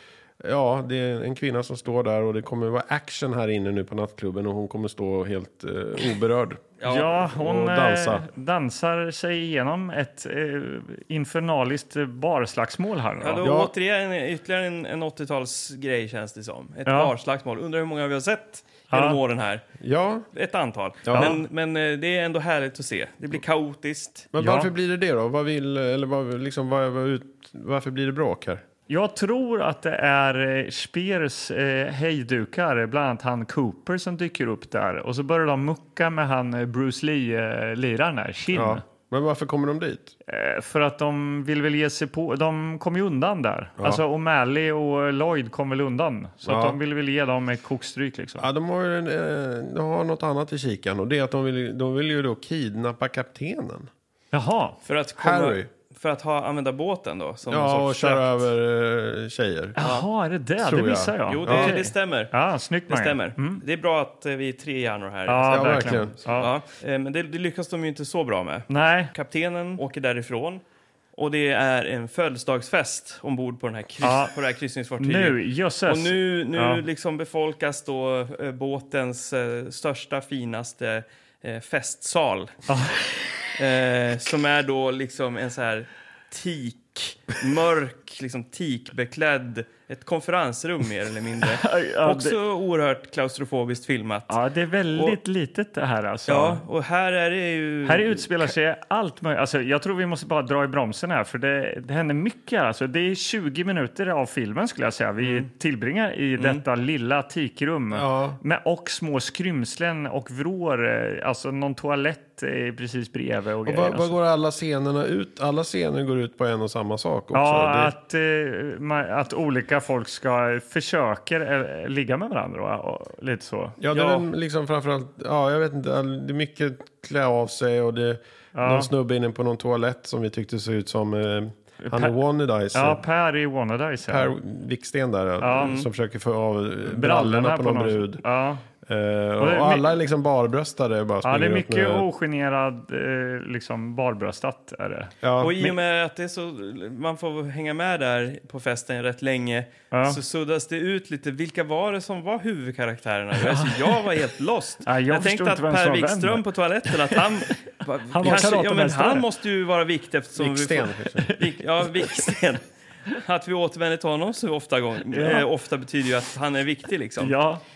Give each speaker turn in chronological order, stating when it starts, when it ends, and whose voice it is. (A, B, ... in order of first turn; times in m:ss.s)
0:00.4-0:08.2 A
0:06.8-0:07.1 B
0:06.8-0:13.4 C
0:13.2-0:19.6 B
0:13.4-0:13.7 A
0:16.9-0:17.1 C
0:18.9-0:19.2 C
0:19.8-0:20.3 A
0:20.3-0:24.3 B
0:21.0-0:21.4 A
0:24.3-0:28.6 A
0:24.4-0:24.7 C
0:28.9-0:38.8 C
0:38.5-0:40.1 A
0:40.3-0:48.5 C
0:46.4-0:46.8 A
0:48.4-0:53.9 A
0:54.3-0:54.8 C
0:54.8-0:58.5 B
0:55.2-0:55.7 A
0:57.5-0:59.8 A
0:59.8-1:03.6 C
0:59.8-1:00.0 B
1:00.6-1:01.7 A
1:01.3-1:02.3 B
1:02.9-1:10.6 B
1:05.3-1:06.5 C
1:05.5-1:06.2 A
1:08.7-1:09.1 C
1:11.2-1:22.6 B
1:14.0-1:14.3 C
1:15.0-1:16.8 C
1:22.7-1:23.0 C
1:23.6-1:34.4 B
1:31.5-1:32.4 C
1:34.3-1:36.6 C
1:36.3-1:38.5 B
1:37.8-1:54.1 C
1:45.2-1:45.5 B
1:47.9-1:48.4 A
1:53.6-1:57.9 A
1:57.3-2:03.8 C
2:03.8-2:13.0 A
2:03.9-2:04.2 B
2:08.5-2:08.9 C
2:11.8-2:12.2 C
2:12.7-2:14.3 C
2:14.1-2:18.2 A
2:15.4-2:15.8 C
2:16.8-2:18.6 C
2:18.8-2:22.0 A
2:19.4-2:19.9 C
2:21.2-2:25.7 C
2:25.2-2:25.6 A
2:25.4-2:47.4 B
2:29.9-2:30.2 C
2:33.4-2:34.0 C
2:34.8-2:37.5 C
2:38.1-2:39.2 C
2:40.4-2:41.3 A
2:41.2-2:42.2 C
2:45.1-2:45.4 C
2:47.2-2:47.6 C